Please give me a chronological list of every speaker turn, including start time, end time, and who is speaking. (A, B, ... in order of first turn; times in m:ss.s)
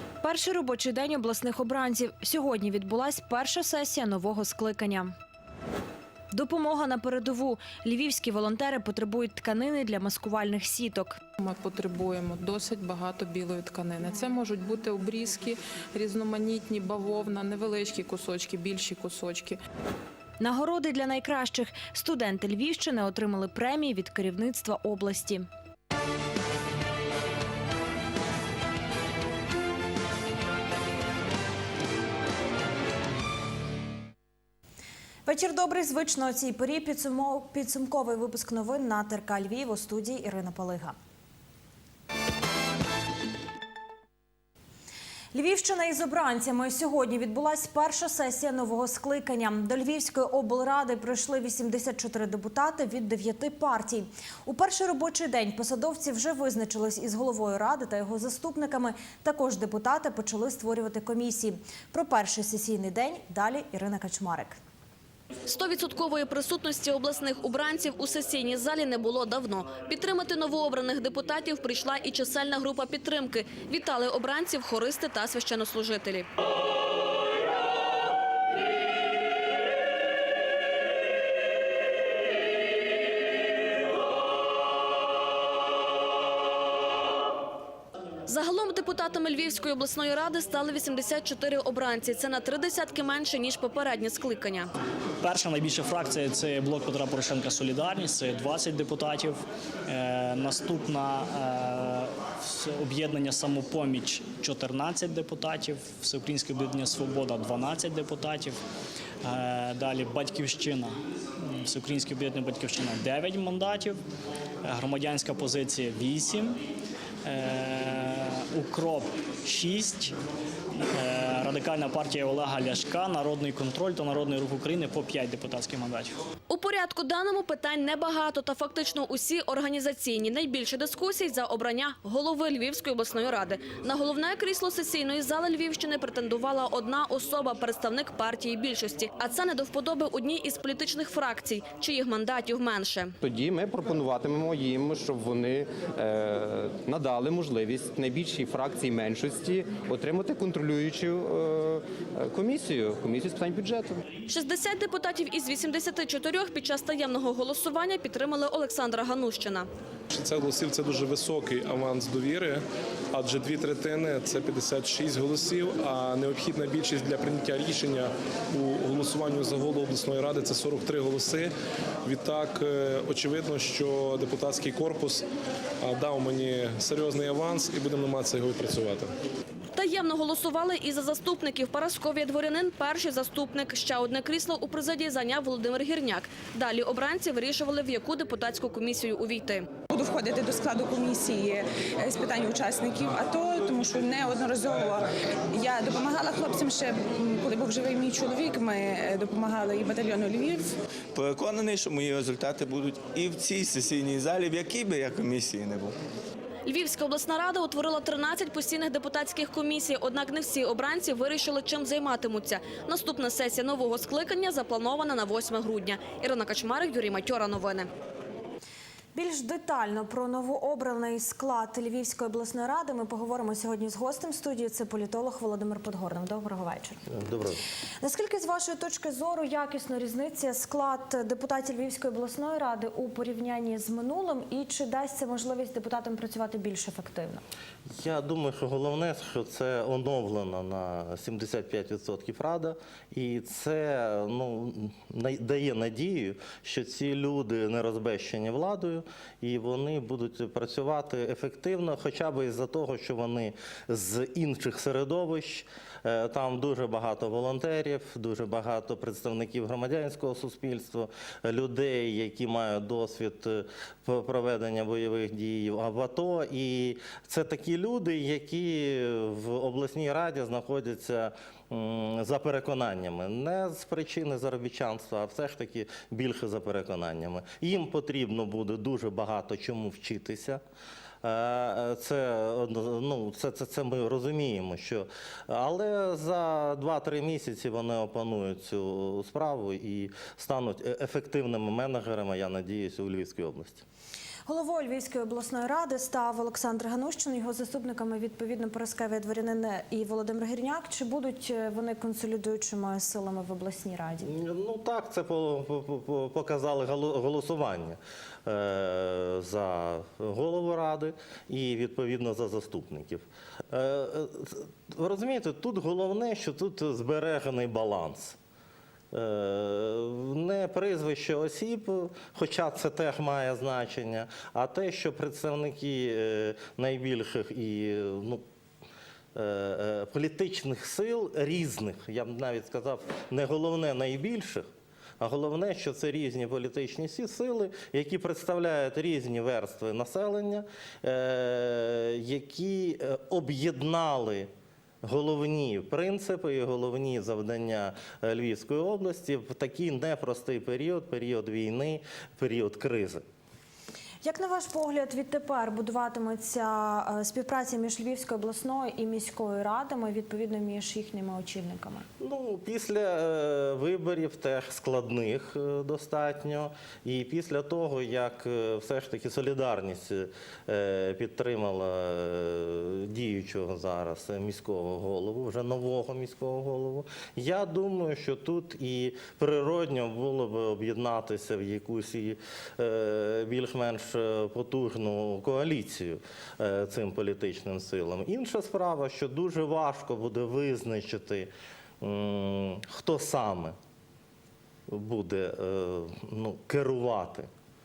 0:00.2-0:05.1 A
0:06.3-0:11.2 A
0:11.4-0:19.6 B
0:20.4-0:25.5 A
0:35.2-0:41.0 A
0:45.3-1:04.6 A
1:05.5-1:16.3 C
1:28.3-1:34.7 C
1:35.2-1:48.6 D
1:49.2-1:50.9 D
1:51.6-1:54.0 D
1:54.6-1:56.6 D
1:57.2-2:00.2 D
2:00.9-2:06.2 D
2:06.5-2:23.1 C
2:23.2-2:34.0 E
2:34.3-2:39.7 C
2:40.1-2:51.5 F
2:52.0-2:55.3 F
2:55.8-2:59.1 F
2:59.7-3:09.6 C
3:09.9-3:20.7 G
3:21.2-3:25.8 H
3:26.6-3:37.9 C
3:39.1-3:47.0 A
3:47.1-3:47.6 I
3:48.0-3:57.4 A
3:57.9-4:40.6 I
4:41.2-4:53.8 I
4:54.5-5:04.3 A
5:04.2-5:18.4 I
5:19.1-5:28.4 I
5:29.3-5:34.7 I
5:35.2-5:44.5 I
5:45.0-5:53.2 I
5:54.2-6:02.1 A
6:02.2-6:31.5 I
6:32.0-6:33.8 I
6:34.9-6:37.5 I